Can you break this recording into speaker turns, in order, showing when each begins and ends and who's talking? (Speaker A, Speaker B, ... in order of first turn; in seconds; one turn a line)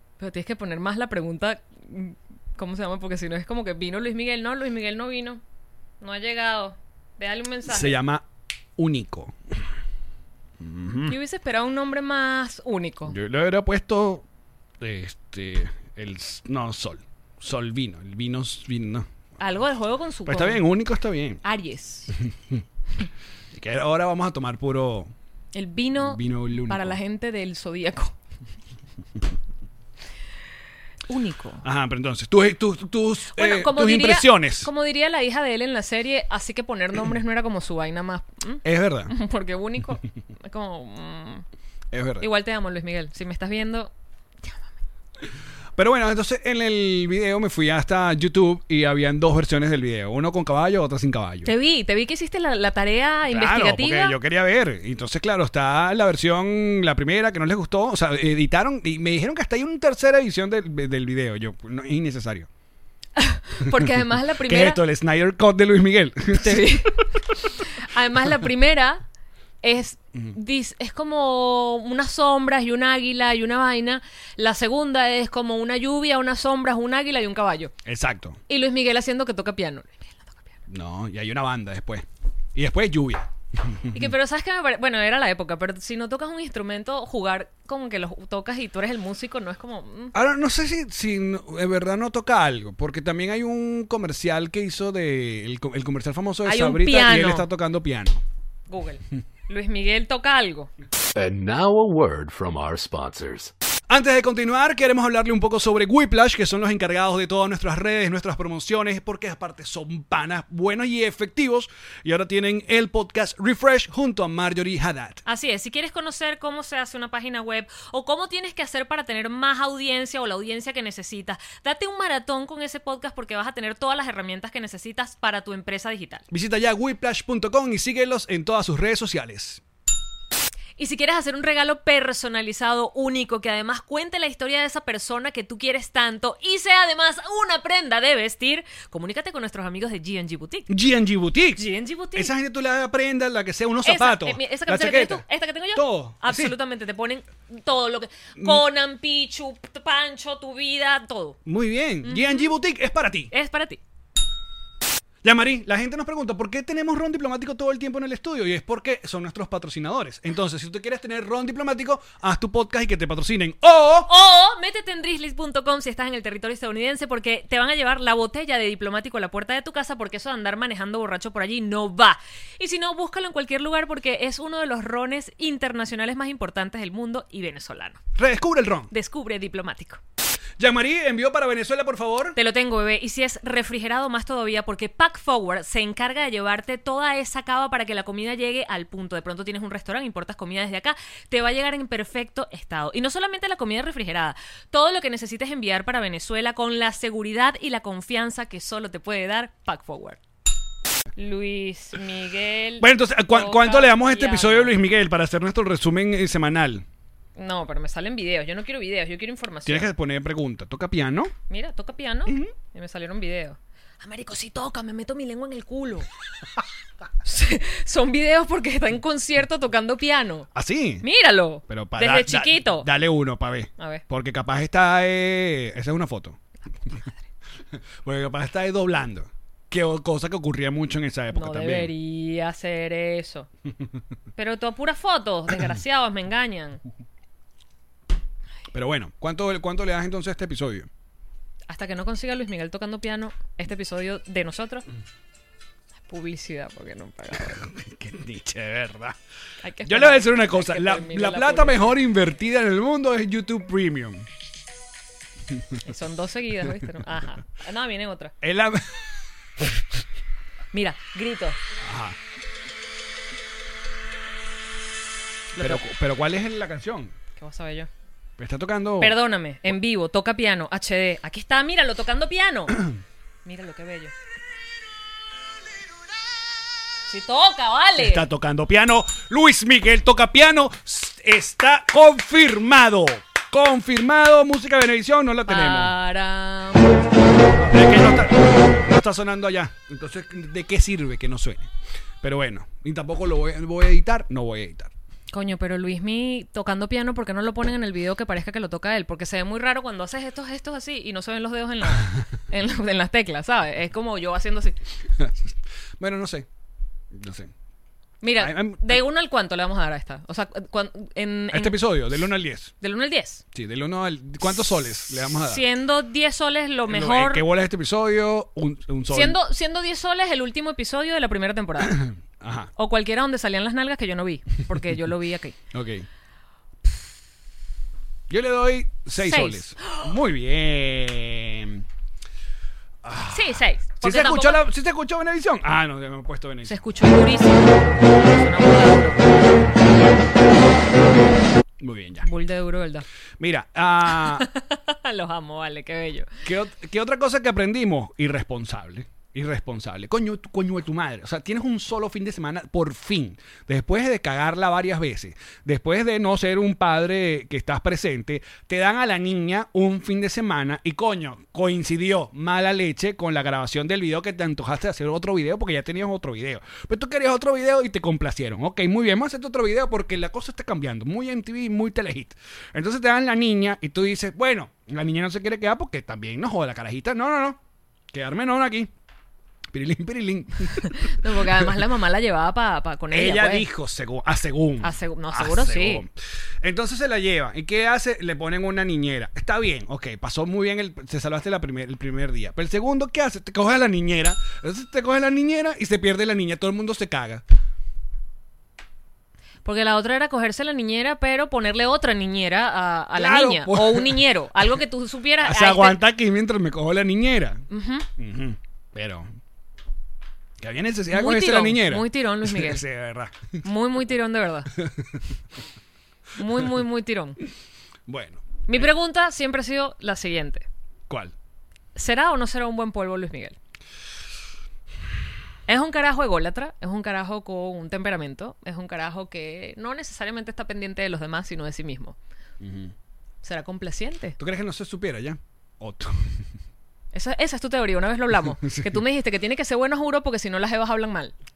Speaker A: 0.2-5.4
Speaker A: 6.0-8.0
Speaker B: 7.7-8.3
Speaker B: 8.8-9.3
Speaker B: 10.6-11.2
Speaker A: 11.1-13.2
Speaker B: 13.1-14.2
Speaker B: 14.8-19.1
Speaker A: 19.4-20.7
Speaker B: 20.3-21.4
Speaker A: 21.4-22.1
Speaker B: 23.5-25.1
Speaker A: 25.5-28.1
Speaker B: 26.0-27.0
Speaker A: 31.1-31.6
Speaker B: 31.6-34.7
Speaker A: 33.4-41.5
Speaker B: 38.6-39.1
Speaker B: 41.9-42.3
Speaker A: 42.2-43.9
Speaker B: 45.8-51.5
Speaker A: 51.5-54.2
Speaker B: 53.3-62.5
Speaker A: 63.2-64.8
Speaker B: 64.4-66.9
Speaker A: 66.4-69.0
Speaker A: 69.6-77.7
Speaker B: 77.8-78.4
Speaker A: 78.5-80.6
Speaker B: 80.7-84.1
Speaker A: 83.9-90.2
Speaker B: 90.1-98.2
Speaker A: 96.5-97.5
Speaker A: 98.7-100.7
Speaker C: 101.2-103.5
Speaker B: 103.9-115.2
Speaker A: 115.3-126.2
Speaker B: 126.3-129.6
Speaker A: 130.8-140.7
Speaker B: 140.7-146.6
Speaker A: 141.6-142.3
Speaker A: 143.8-151.4
Speaker B: 148.4-148.6
Speaker B: 151.5-153.3
Speaker A: 152.1-152.5
Speaker A: 153.3-153.8
Speaker B: 155.2-164.1
Speaker A: 164.1-178.0
Speaker B: 178.2-178.9
Speaker A: 178.9-180.0
Speaker B: 180.6-182.4
Speaker A: 182.4-200.2
Speaker A: 201.2-204.7
Speaker B: 202.8-206.8
Speaker A: 207.4-209.9
Speaker B: 209.7-211.3
Speaker A: 211.5-216.1
Speaker B: 212.3-212.5
Speaker A: 217.2-220.5
Speaker B: 220.6-221.1
Speaker A: 221.0-222.9
Speaker B: 221.7-226.4
Speaker B: 228.0-231.9
Speaker A: 231.3-233.5
Speaker A: 234.4-236.8
Speaker B: 238.7-240.9
Speaker A: 241.7-244.9
Speaker A: 246.1-247.6
Speaker B: 247.5-249.2
Speaker A: 249.6-252.0
Speaker B: 249.8-254.3
Speaker A: 255.8-258.3
Speaker B: 258.4-259.1
Speaker A: 260.7-261.6
Speaker B: 261.8-262.2
Speaker A: 265.6-265.8
Speaker B: 265.6-267.1
Speaker A: 267.4-267.9
Speaker B: 268.4-269.2
Speaker A: 269.0-272.8
Speaker A: 273.4-274.1
Speaker A: 277.1-278.3
Speaker B: 278.0-285.9
Speaker A: 285.5-287.1
Speaker B: 287.6-291.7
Speaker B: 292.2-294.9
Speaker A: 295.3-304.8
Speaker B: 305.2-306.5
Speaker B: 307.1-307.5
Speaker A: 308.2-312.0
Speaker B: 308.4-309.0
Speaker B: 311.5-312.7
Speaker A: 312.8-313.4
Speaker B: 313.5-315.6
Speaker A: 314.6-317.5
Speaker B: 316.9-319.4
Speaker A: 319.1-322.0
Speaker B: 321.8-322.7
Speaker A: 322.8-325.6
Speaker B: 325.7-326.1
Speaker B: 328.3-331.9
Speaker A: 329.2-330.0
Speaker B: 333.0-336.8
Speaker A: 333.3-334.6
Speaker A: 336.7-339.5
Speaker B: 341.8-342.3
Speaker A: 342.2-343.1
Speaker B: 343.4-344.5
Speaker A: 344.1-346.4
Speaker B: 346.4-377.6
Speaker B: 378.1-378.9
Speaker B: 379.7-381.8
Speaker A: 380.9-383.7
Speaker B: 383.1-386.1
Speaker A: 384.8-386.0
Speaker B: 386.6-397.4
Speaker A: 399.6-406.0
Speaker B: 403.1-404.2
Speaker B: 405.4-407.6
Speaker A: 407.7-408.1
Speaker B: 408.2-409.3
Speaker B: 410.6-413.6
Speaker A: 411.1-412.8
Speaker A: 413.6-414.7
Speaker B: 414.8-415.2
Speaker A: 416.4-417.4
Speaker B: 418.1-418.9
Speaker A: 418.7-420.6
Speaker B: 421.1-421.3
Speaker A: 421.9-423.6
Speaker A: 425.7-432.2
Speaker B: 432.6-432.9
Speaker A: 433.4-434.4
Speaker B: 434.4-436.3
Speaker A: 437.1-441.3
Speaker B: 438.4-439.0